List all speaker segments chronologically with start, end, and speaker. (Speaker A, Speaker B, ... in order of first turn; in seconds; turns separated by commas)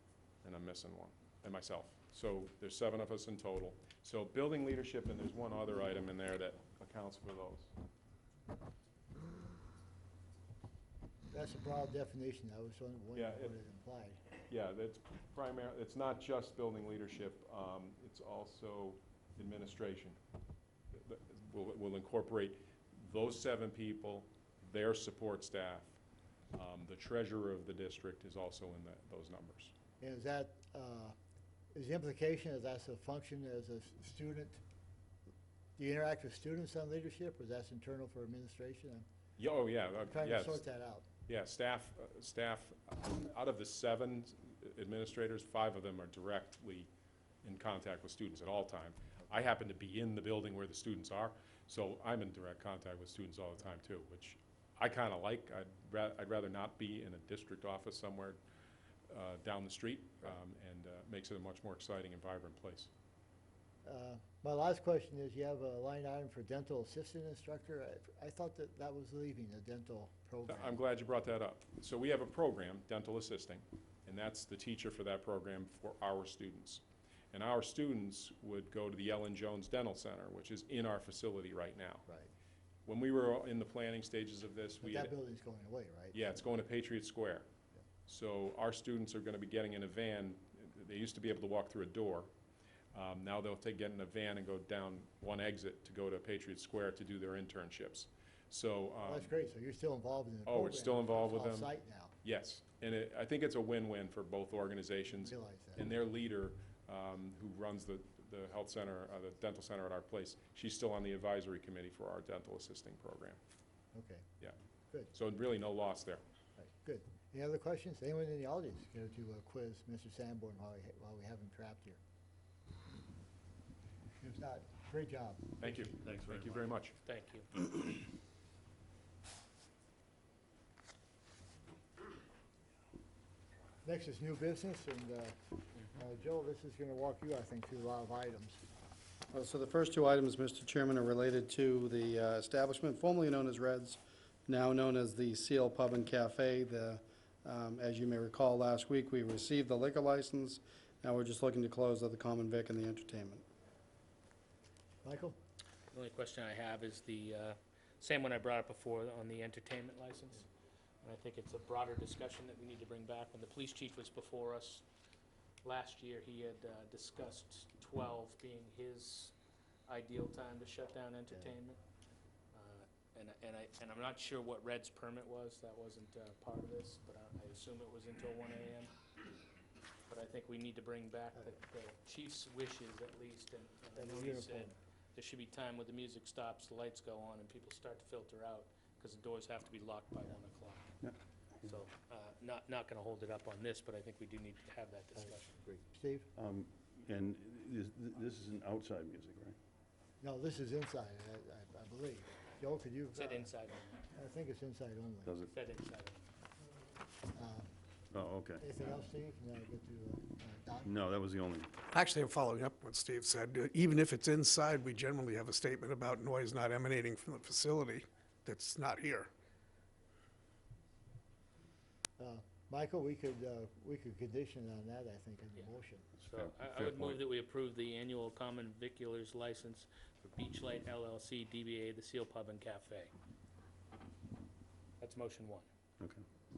Speaker A: 0.4-7.7, Speaker B: 11.3-14.2, Speaker A: 13.1-13.5, Speaker A: 14.5-20.2, Speaker A: 20.9-26.0, Speaker A: 26.5-29.7, Speaker B: 30.0-31.1, Speaker B: 31.7-34.6, Speaker B: 35.8-39.0, Speaker A: 39.4-40.6, Speaker B: 40.0-41.0, Speaker A: 41.3-46.9, Speaker A: 47.4-58.4, Speaker A: 59.1-62.9, Speaker B: 63.8-70.8, Speaker A: 70.5-82.1, Speaker A: 82.8-85.1, Speaker B: 84.8-86.2, Speaker A: 86.1-87.5, Speaker A: 88.1-92.3, Speaker A: 92.9-99.3, Speaker B: 99.0-102.1, Speaker A: 100.5-101.7, Speaker A: 102.2-113.4, Speaker B: 105.2-105.8, Speaker B: 113.9-114.2, Speaker A: 115.1-116.2, Speaker B: 116.6-122.0, Speaker B: 124.2-125.9, Speaker A: 125.6-127.0, Speaker C: 126.0-126.6, Speaker D: 127.0-127.5, Speaker B: 133.8-135.3, Speaker B: 135.9-138.6, Speaker E: 139.3-153.4, Speaker B: 155.0-155.4, Speaker D: 155.9-160.5, Speaker D: 161.0-164.8, Speaker D: 165.6-169.3, Speaker D: 169.9-171.8, Speaker D: 172.5-178.9, Speaker D: 180.1-190.9, Speaker B: 183.9-184.8, Speaker D: 191.6-195.6, Speaker B: 195.2-196.3, Speaker C: 196.3-199.6, Speaker B: 200.2-203.5, Speaker D: 203.1-204.0, Speaker B: 204.1-205.3, Speaker C: 205.2-205.5, Speaker D: 205.5-206.3, Speaker B: 207.3-207.7, Speaker C: 208.1-208.6, Speaker B: 208.6-210.9, Speaker C: 210.8-211.7, Speaker F: 211.9-219.3, Speaker B: 222.2-226.1, Speaker C: 226.2-227.2, Speaker D: 226.2-233.1, Speaker D: 235.0-235.7